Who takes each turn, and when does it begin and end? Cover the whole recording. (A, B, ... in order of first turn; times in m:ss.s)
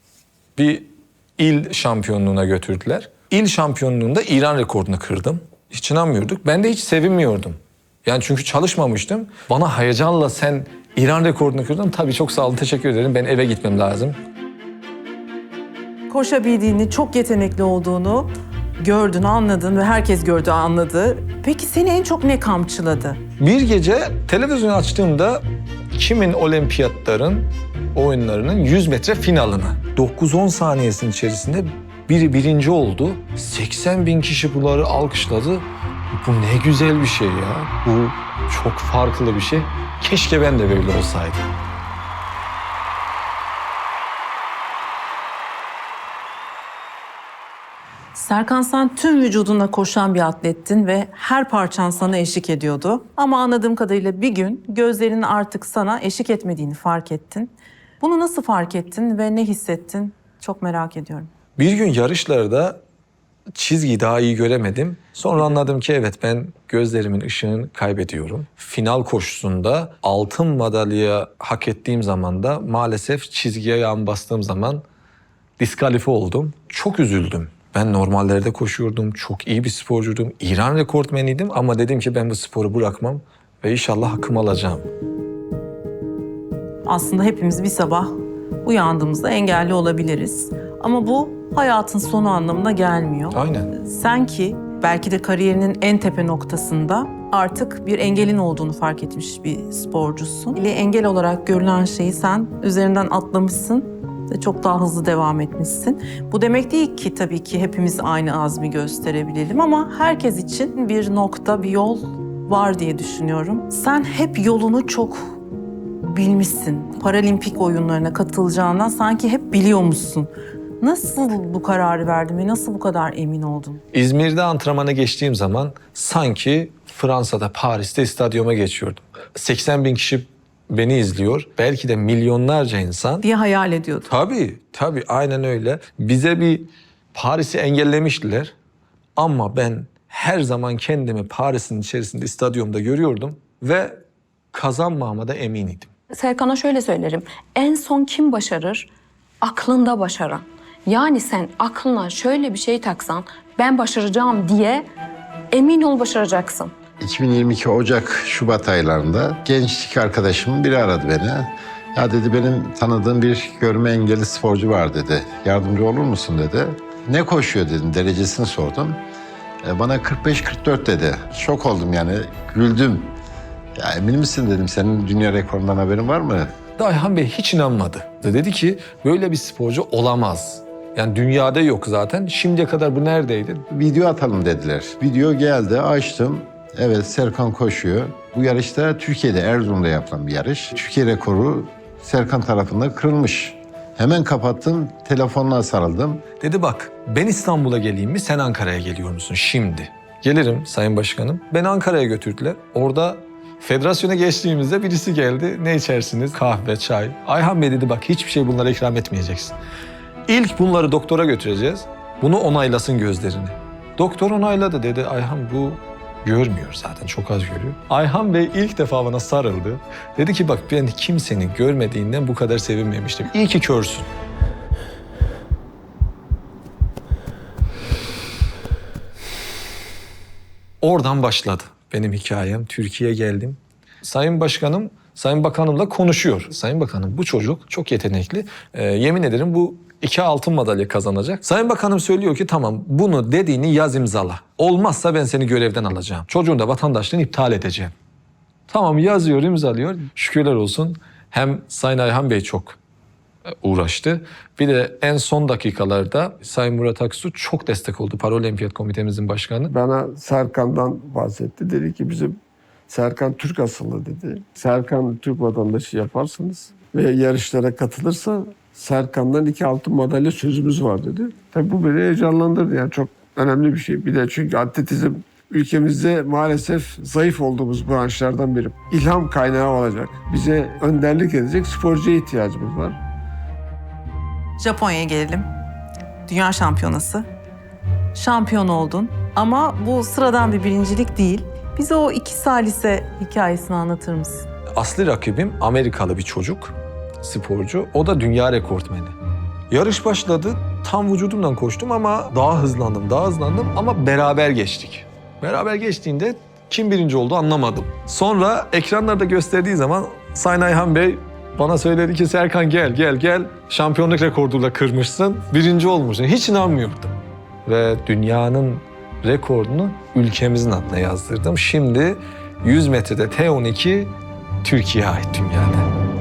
0:00.6-0:14.2 A
0:16.1-0:18.3 B
0:18.8-0:23.2 B
0:23.4-0:41.4 A
0:48.1-1:01.3 B
1:01.6-1:02.8 A
1:03.6-1:14.8 A
1:15.6-1:24.9 A
1:26.9-1:55.4 B
1:33.3-1:33.7 A
1:56.0-2:03.8 B
2:03.9-2:13.3 A
2:13.2-2:14.2 B
2:14.1-2:18.5 A
2:19.2-2:24.0 A
2:24.5-2:25.9 A
2:26.8-2:28.8 C
2:29.4-2:34.8 C
2:35.6-2:36.6 C
2:37.0-2:49.0 D
2:49.6-2:53.1 D
2:53.8-2:56.5 D
2:56.8-3:03.6 A
3:03.7-3:16.2 D
3:16.4-3:29.6 A
3:30.3-3:44.1 A
3:50.8-4:07.9 A
4:08.7-4:12.8 A
4:13.5-4:19.7 A
4:19.7-4:22.4 E
4:22.9-4:43.0 E
4:44.6-4:45.5 B
4:46.3-4:47.3 B
4:48.1-4:54.5 B
4:54.8-4:59.2 A
4:59.7-5:17.2 A
5:17.7-5:25.9 A